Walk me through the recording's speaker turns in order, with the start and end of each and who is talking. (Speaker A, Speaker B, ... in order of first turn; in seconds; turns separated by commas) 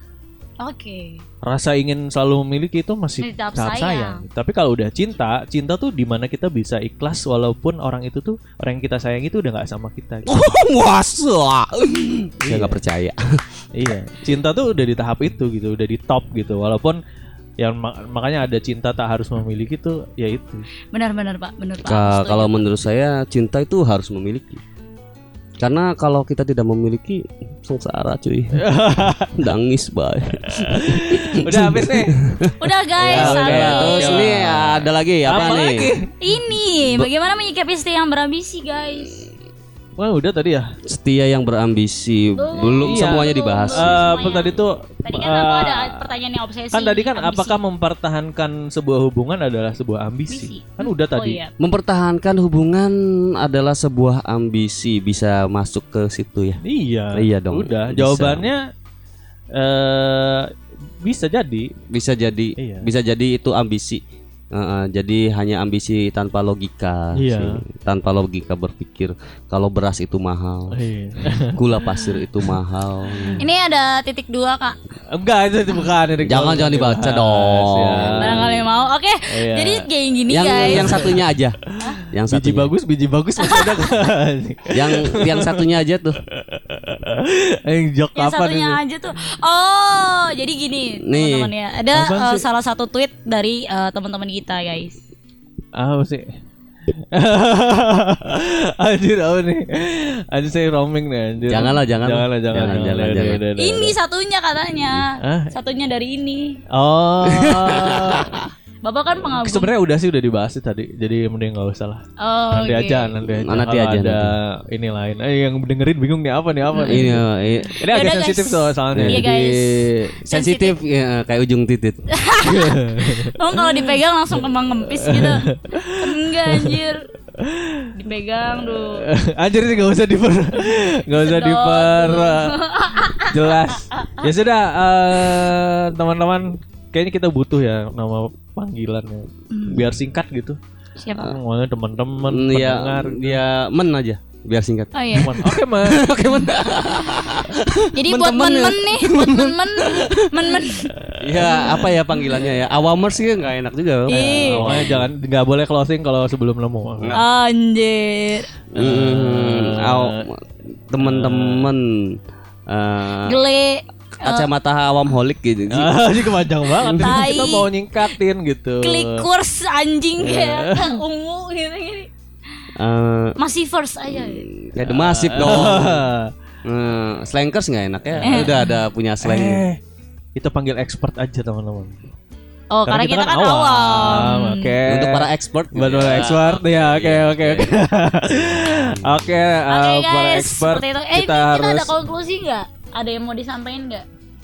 Speaker A: 0.6-1.2, Speaker B: 1.4-10.3, Speaker A: 3.2-4.2, Speaker C: 10.2-13.4, Speaker B: 12.4-12.8, Speaker B: 13.7-17.0, Speaker B: 17.6-20.6, Speaker A: 20.9-22.5, Speaker C: 21.9-24.6, Speaker C: 25.6-28.6, Speaker B: 28.6-29.5, Speaker C: 29.4-35.9, Speaker B: 30.5-32.4, Speaker A: 32.6-34.5, Speaker B: 33.1-36.1, Speaker A: 36.2-39.3, Speaker B: 40.0-40.7, Speaker C: 40.9-44.1, Speaker A: 42.4-47.6, Speaker B: 42.9-46.0, Speaker B: 46.7-51.4, Speaker A: 50.3-51.5, Speaker C: 51.6-56.6, Speaker B: 56.6-58.6, Speaker C: 57.1-58.5, Speaker B: 59.5-60.5, Speaker B: 61.0-61.7, Speaker C: 61.9-64.0, Speaker B: 62.6-62.9, Speaker C: 64.5-70.7, Speaker B: 67.2-67.6, Speaker B: 70.7-71.6, Speaker C: 71.5-73.4, Speaker B: 73.1-73.4, Speaker A: 73.4-74.8, Speaker B: 75.1-78.6, Speaker C: 76.2-78.5, Speaker A: 78.2-81.1, Speaker B: 79.3-79.8, Speaker C: 80.3-81.6, Speaker B: 80.6-85.6, Speaker C: 82.1-82.7, Speaker A: 83.4-83.9, Speaker C: 84.7-86.2, Speaker B: 86.3-88.8, Speaker A: 88.2-95.0, Speaker C: 91.0-91.5, Speaker B: 91.9-92.4, Speaker B: 95.8-96.3, Speaker B: 97.1-103.9, Speaker C: 101.5-103.4, Speaker A: 103.6-106.6, Speaker B: 105.2-105.5, Speaker B: 106.7-108.3, Speaker C: 107.2-108.4, Speaker A: 108.8-109.7, Speaker B: 109.3-117.2, Speaker A: 112.2-113.1, Speaker C: 113.3-114.3, Speaker A: 116.7-117.1, Speaker C: 116.9-117.8, Speaker A: 117.7-120.8, Speaker B: 117.8-119.2, Speaker C: 118.9-122.0, Speaker A: 122.1-127.1, Speaker B: 122.4-124.4, Speaker B: 125.0-126.8, Speaker B: 127.3-127.9, Speaker A: 127.9-129.1, Speaker B: 128.5-132.6, Speaker A: 131.2-133.3, Speaker B: 133.2-140.6, Speaker A: 133.9-134.3, Speaker A: 139.5-139.8, Speaker A: 141.0-141.3, Speaker B: 141.2-143.4, Speaker C: 142.3-150.6, Speaker A: 144.9-145.6, Speaker B: 145.2-146.0, Speaker A: 147.9-152.0, Speaker B: 151.0-151.6, Speaker C: 151.2-155.0, Speaker A: 154.1-154.8, Speaker B: 154.1-157.2, Speaker A: 157.1-158.5, Speaker C: 158.7-162.2, Speaker B: 158.8-160.2, Speaker B: 161.0-161.7, Speaker C: 162.7-163.4, Speaker A: 163.2-164.5, Speaker C: 164.2-166.1, Speaker B: 165.7-169.2, Speaker C: 166.8-167.2, Speaker A: 166.8-167.7, Speaker A: 168.8-172.1, Speaker B: 170.2-171.0, Speaker C: 172.8-173.3, Speaker A: 173.4-174.5, Speaker C: 174.2-176.1, Speaker B: 174.8-176.3, Speaker C: 176.6-179.6, Speaker B: 178.1-178.5, Speaker A: 178.2-178.7, Speaker B: 179.2-179.8, Speaker B: 180.3-182.0, Speaker A: 182.7-184.8, Speaker B: 182.8-191.9, Speaker C: 184.9-187.7, Speaker C: 188.3-189.2, Speaker A: 189.7-194.0